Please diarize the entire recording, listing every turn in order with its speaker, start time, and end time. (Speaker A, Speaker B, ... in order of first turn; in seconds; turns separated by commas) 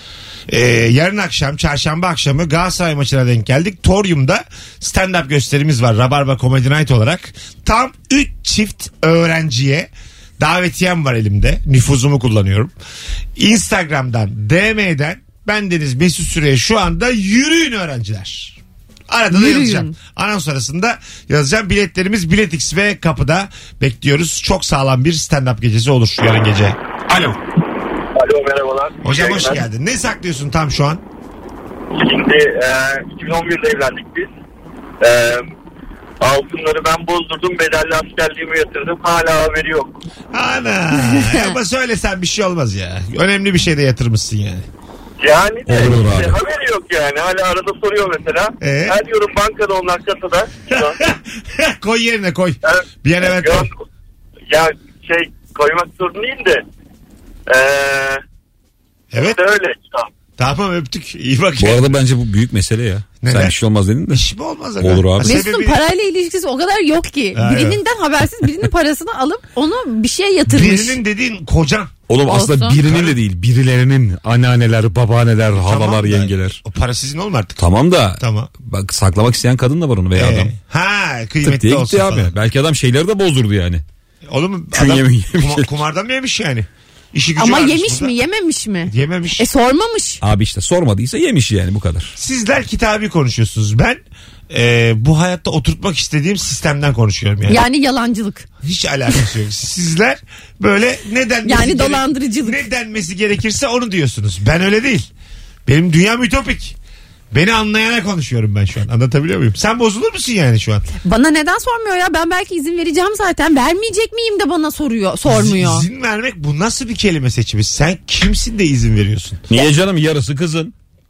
Speaker A: 0.5-12.7, Speaker A: 13.4-27.4, Speaker B: 19.3-19.9, Speaker C: 28.2-29.6, Speaker A: 29.0-31.0, Speaker C: 31.9-34.3, Speaker C: 35.0-35.5, Speaker C: 36.2-39.9, Speaker A: 40.3-44.7, Speaker B: 41.1-41.5, Speaker C: 45.2-51.0, Speaker D: 45.7-46.4, Speaker A: 48.6-49.0, Speaker A: 51.0-53.7, Speaker C: 52.7-53.8, Speaker C: 54.5-56.6, Speaker C: 57.5-58.2, Speaker A: 59.1-59.4, Speaker C: 59.2-60.1, Speaker A: 60.4-61.9, Speaker D: 61.6-64.2, Speaker A: 63.2-63.5, Speaker A: 64.1-65.8, Speaker D: 64.8-65.4, Speaker B: 65.2-71.0, Speaker A: 67.3-67.8, Speaker A: 70.5-71.9, Speaker D: 72.1-76.6, Speaker B: 72.3-72.8, Speaker A: 72.8-73.2, Speaker A: 75.6-77.7, Speaker D: 77.6-80.5, Speaker A: 78.2-78.5, Speaker A: 80.2-82.3, Speaker D: 81.4-83.8, Speaker A: 84.3-88.2, Speaker D: 84.7-85.8, Speaker B: 87.4-90.2, Speaker A: 88.9-89.5, Speaker D: 90.2-92.1, Speaker A: 92.2-97.6, Speaker B: 97.5-98.5, Speaker A: 98.6-105.1, Speaker B: 101.5-102.7, Speaker A: 105.7-106.8, Speaker A: 107.3-110.9, Speaker B: 111.0-115.9, Speaker A: 115.3-119.4, Speaker D: 119.5-120.7